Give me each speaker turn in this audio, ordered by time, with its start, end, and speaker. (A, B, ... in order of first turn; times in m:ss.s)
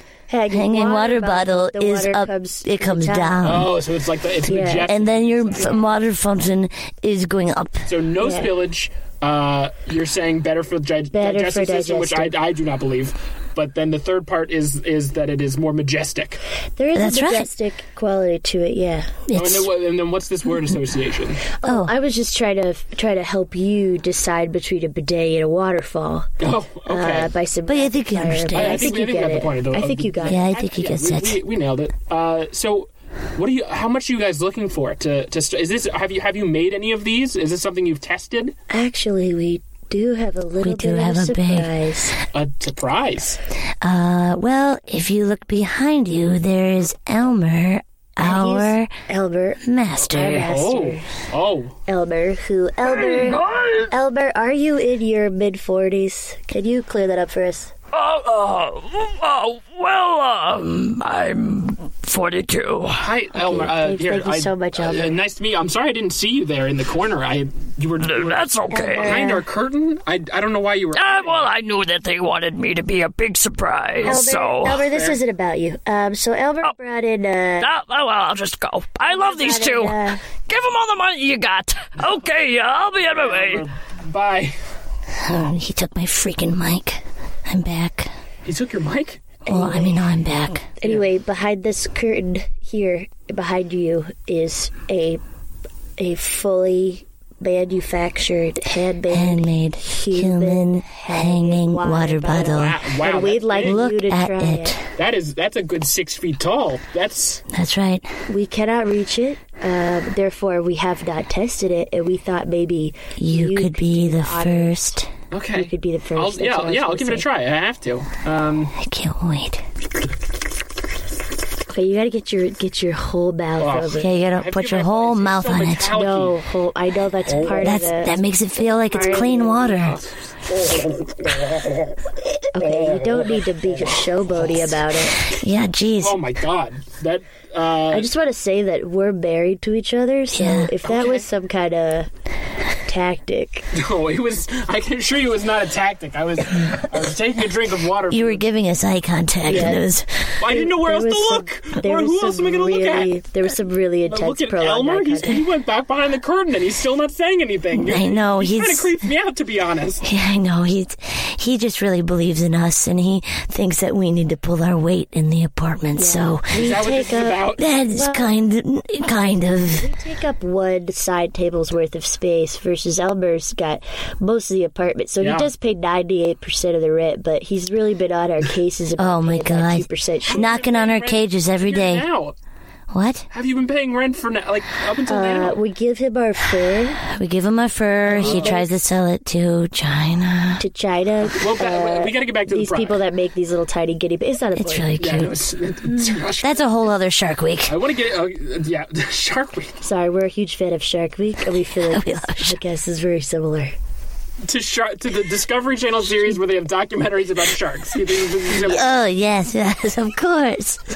0:00.3-0:03.7 A
0:00.5-0:03.7 B
0:03.4-0:05.8 C
0:04.4-0:04.9 A
0:04.8-0:07.9 B
0:07.9-0:16.4 C
0:08.2-0:08.5 A
0:11.1-0:12.3 A
0:16.8-0:19.2 A
0:16.9-0:17.5 B
0:19.3-0:19.7 B
0:19.3-0:21.5 C
0:21.6-0:26.3 A
0:21.6-0:21.9 B
0:26.4-0:27.3 C
0:26.9-0:30.5 A
0:27.6-0:28.9 B
0:28.5-0:38.5 C
0:30.2-0:31.4 B
0:38.7-0:42.2 A
0:40.6-0:41.7 B
0:42.3-0:43.4 C
0:43.8-0:48.9 B
0:48.2-0:51.1 A
0:49.6-0:50.5 B
0:50.1-0:51.8 C
0:51.9-0:57.7 A
0:52.8-0:53.9 D
0:57.9-1:03.1 D
1:03.0-1:11.5 C
1:03.3-1:05.2 A
1:08.0-1:09.2 D
1:08.7-1:09.4 A
1:10.9-1:14.8 D
1:14.0-1:15.2 C
1:14.0-1:17.7 A
1:17.6-1:23.7 D
1:19.0-1:20.2 A
1:23.2-1:24.6 C
1:25.1-1:28.1 B
1:28.4-1:29.2 C
1:29.4-1:30.0 A
1:29.4-1:30.7 B
1:30.8-1:35.2 A
1:36.0-1:44.8 A
1:39.1-1:42.8 B
1:42.4-1:43.8 C
1:43.6-1:44.9 B
1:44.9-1:47.4 C
1:47.5-1:48.1 B
1:48.3-1:55.0 A
1:53.2-1:55.1 B
1:55.3-1:58.7 C
1:55.5-1:57.2 A
1:58.8-1:59.6 B
2:01.7-2:04.1 A
2:03.6-2:06.4 C
2:04.0-2:05.9 B
2:05.9-2:08.2 A
2:07.6-2:10.0 B
2:08.9-2:09.8 A
2:09.0-2:10.0 C
2:12.5-2:15.2 A
2:15.3-2:16.2 B
2:16.0-2:18.1 C
2:17.9-2:22.1 A
2:20.3-2:20.7 B
2:20.8-2:21.3 C
2:22.8-2:23.7 A
2:23.7-2:28.4 C
2:28.1-2:30.3 B
2:29.4-2:29.9 A
2:30.4-2:33.1 C
2:30.4-2:35.4 A
2:34.1-2:40.0 C
2:37.7-2:39.0 B
2:40.0-2:46.5 B
2:46.0-2:48.3 A
2:46.5-2:47.6 C
2:47.6-2:49.9 B
2:49.1-3:00.5 A
2:55.2-2:55.5 C
2:59.0-3:02.0 B
3:00.3-3:02.3 C
3:02.9-3:03.3 B
3:03.3-3:05.6 C
3:05.1-3:07.0 A
3:07.1-3:10.6 B
3:08.1-3:08.7 A
3:08.1-3:08.6 C
3:10.6-3:14.9 A
3:11.2-3:13.0 C
3:14.6-3:15.4 B
3:15.0-3:16.9 C
3:16.4-3:17.8 B
3:17.6-3:19.8 C
3:19.8-3:23.7 A
3:21.8-3:22.6 B
3:24.4-3:28.9 C
3:28.6-3:28.8 A
3:28.6-3:30.8 B